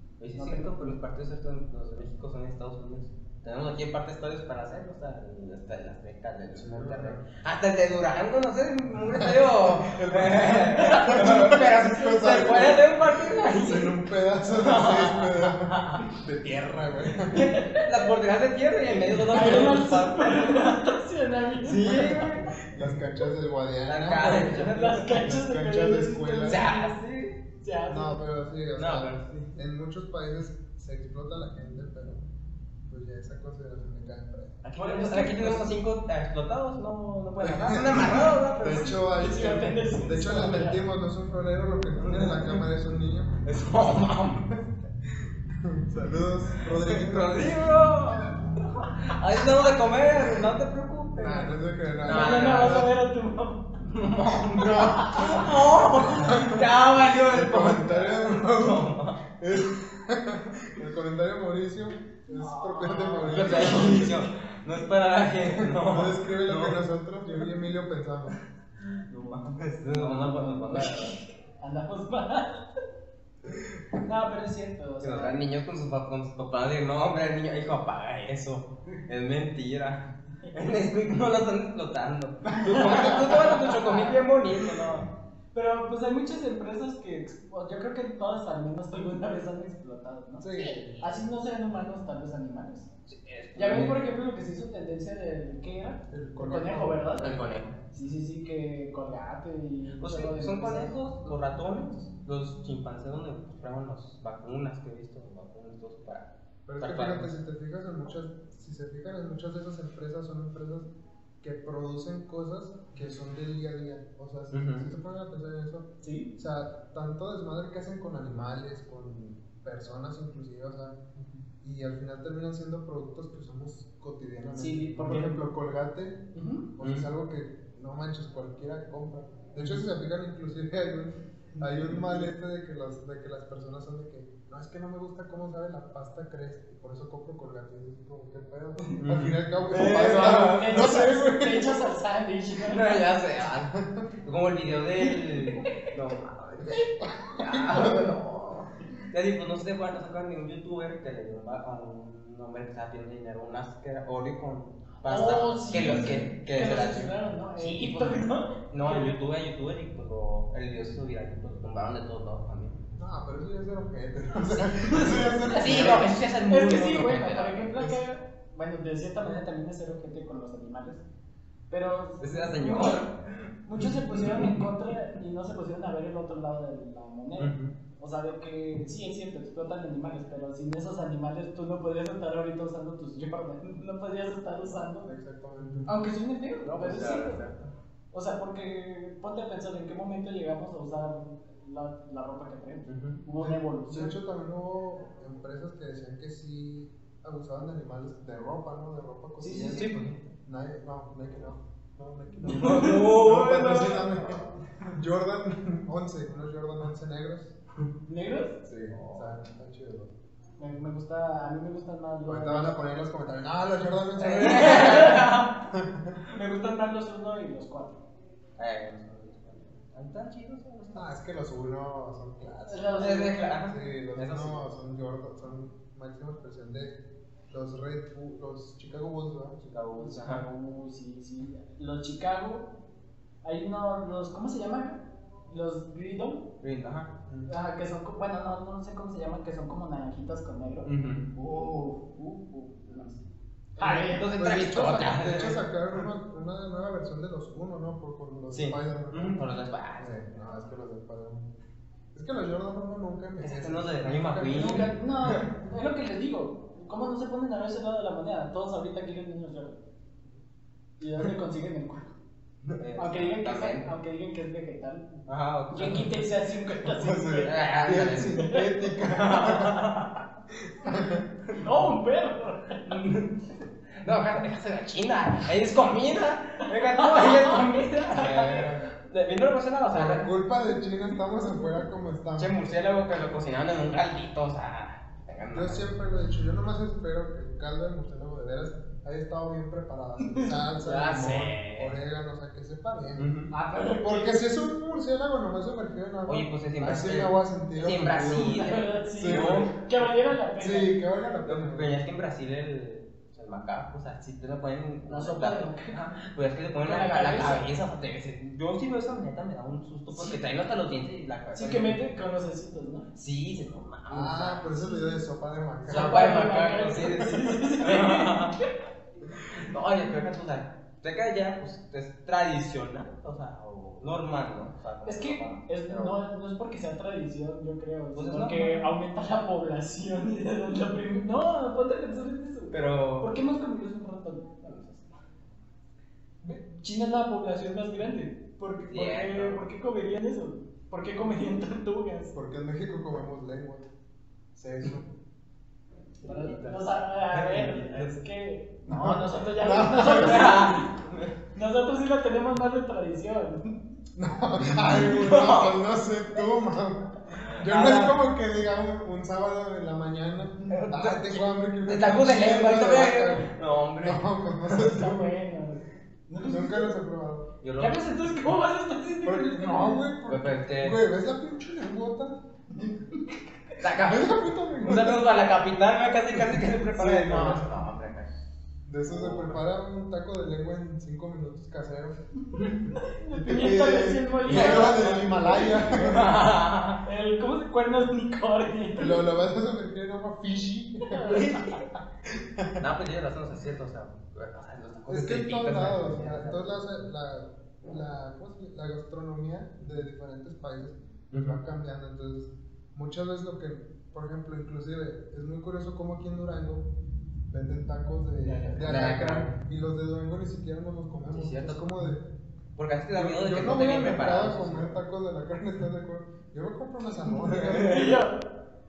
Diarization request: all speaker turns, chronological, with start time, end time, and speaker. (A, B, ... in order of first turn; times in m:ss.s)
0:00.2-0:16.0 A
0:00.3-0:00.9 B
0:06.5-0:07.2 C
0:08.9-0:17.5 C
0:10.8-0:12.8 B
0:17.2-0:20.8 A
0:17.3-0:18.1 B
0:19.2-0:22.2 B
0:21.6-0:22.9 A
0:21.8-0:26.6 C
0:23.8-0:25.2 A
0:24.3-0:27.0 B
0:26.4-0:27.4 A
0:27.5-0:28.2 B
0:27.9-0:32.2 C
0:28.8-0:29.5 A
0:32.9-0:34.6 C
0:34.6-0:39.0 A
0:34.8-0:35.7 B
0:37.4-0:43.4 C
0:38.7-0:40.8 B
0:42.0-0:42.6 A
0:43.4-0:44.6 A
0:45.5-0:47.9 C
0:46.6-0:52.9 A
0:50.1-0:50.5 C
0:51.2-0:52.9 C
0:52.0-0:53.7 B
0:53.8-0:59.2 A
0:54.5-1:04.2 C
1:02.4-1:04.1 B
1:03.2-1:06.8 A
1:05.5-1:08.3 C
1:09.1-1:11.2 A
1:09.9-1:12.6 B
1:14.0-1:15.4 B
1:15.0-1:25.1 A
1:22.5-1:24.2 B
1:25.5-1:32.9 B
1:30.4-1:31.0 C
1:33.1-1:34.1 A
1:33.5-1:37.4 B
1:36.1-1:37.8 C
1:37.2-1:37.7 A
1:37.9-1:40.9 B
1:40.0-1:46.3 A
1:46.6-1:50.9 C
1:46.8-1:47.3 A
1:51.4-2:01.0 C
1:54.5-1:54.9 A
1:56.0-1:56.3 B
2:01.6-2:06.2 C
2:04.5-2:05.4 B
2:06.3-2:06.7 B
2:06.8-2:21.8 C
2:06.8-2:07.1 A
2:19.0-2:21.1 A
2:19.7-2:23.0 B
2:22.6-2:42.8 A
2:23.7-2:24.1 C
2:25.1-2:25.9 B
2:26.7-2:28.1 C
2:35.0-2:39.1 B
2:35.9-2:36.2 C
2:43.0-2:46.1 C
2:44.5-2:48.0 A
2:44.8-2:45.9 B
2:46.5-2:51.0 B
2:51.7-2:53.1 B
2:52.2-2:54.7 A
2:53.6-3:05.1 B
2:57.4-2:57.7 A
3:05.0-3:05.9 C
3:05.9-3:07.4 B
3:06.6-3:07.7 A
3:08.1-3:14.1 B
3:12.9-3:13.2 A
3:13.4-3:27.6 C
3:19.4-3:20.1 B
3:19.5-3:20.2 A
3:22.4-3:24.6 A
3:22.5-3:23.0 B
3:28.1-3:28.6 B
3:28.6-3:30.1 C
3:28.9-3:29.3 A
3:30.6-3:32.8 B
3:32.2-3:36.2 C
3:34.2-3:35.5 A
3:34.5-3:35.4 B
3:36.3-3:38.0 B
3:38.6-3:41.1 A
3:40.9-3:43.0 C
3:42.6-3:43.5 B
3:43.0-3:44.6 A
3:43.6-3:47.0 C
3:47.5-3:49.6 C
3:49.6-3:50.4 A
3:50.0-3:52.7 B
3:53.4-3:56.4 B
3:56.6-3:57.1 A
3:57.2-3:57.5 C
3:57.5-4:03.2 B
4:00.8-4:01.3 A
4:03.8-4:04.3 B
4:03.8-4:05.6 A
4:04.3-4:09.4 C
4:08.5-4:10.7 A
4:10.0-4:11.5 C
4:12.1-4:14.9 C
4:13.4-4:15.5 A
4:14.5-4:19.8 B
4:21.0-4:22.1 B
4:22.6-4:23.9 A
4:23.0-4:25.1 B
4:25.3-4:26.2 A
4:25.7-4:27.6 B
4:26.9-4:29.8 C
4:27.4-4:30.2 A
4:28.4-4:28.6 B
4:30.6-4:31.2 C
4:31.5-4:31.9 A
4:31.5-4:33.0 B
4:32.8-4:33.4 A
4:33.9-4:40.3 A
4:36.6-4:38.7 B
4:39.9-4:42.6 C
4:42.4-4:45.8 A
4:45.5-4:53.3 C
4:50.2-4:50.6 B
4:50.8-4:51.9 A
4:53.2-4:53.5 A
4:53.5-4:54.4 B
4:53.9-4:59.7 C
4:56.2-5:00.0 A
4:58.3-5:00.9 B
5:00.6-5:02.0 C
5:01.4-5:12.0 A
5:05.1-5:06.0 B
5:06.8-5:07.6 B
5:10.1-5:10.4 B
5:11.5-5:13.1 B
5:13.1-5:15.0 A
5:14.1-5:16.5 C
5:15.9-5:18.6 A
5:15.9-5:18.7 B
5:19.3-5:26.2 A
5:25.0-5:34.7 B
5:28.2-5:28.9 A
5:32.7-5:33.4 A
5:34.6-5:35.2 A
5:36.4-5:42.3 B
5:38.9-5:39.6 A
5:42.3-5:43.9 C
5:44.5-5:45.1 C
5:46.2-5:50.9 B
5:46.2-5:48.2 A
5:48.9-5:50.8 C
5:50.0-5:51.4 A
5:51.5-5:53.8 B
5:54.1-6:03.5 C
5:54.6-5:55.8 A
5:57.4-5:58.1 A
6:00.7-6:04.3 A
6:04.0-6:05.3 C
6:04.6-6:06.9 B
6:06.4-6:07.5 C
6:07.6-6:08.4 A
6:07.8-6:10.1 B
6:09.2-6:12.4 C
6:10.3-6:11.0 A
6:12.8-6:13.4 B
6:13.8-6:18.3 A
6:13.9-6:15.3 C
6:16.9-6:17.7 C
6:18.8-6:22.2 C
6:19.0-6:19.6 A
6:22.9-6:25.9 B
6:23.3-6:26.4 C
6:24.4-6:27.0 A
6:27.0-6:29.2 B
6:29.0-6:31.6 C
6:31.0-6:31.7 B
6:31.3-6:31.8 A
6:32.2-6:32.8 C
6:32.8-6:36.8 A
6:35.1-6:46.9 C
6:41.3-6:41.6 A
6:47.5-6:52.2 C
6:48.4-6:48.9 B
6:48.8-6:49.5 A
6:51.3-6:51.9 A
6:52.8-6:54.9 A
6:53.1-6:58.2 C
6:57.2-6:58.4 B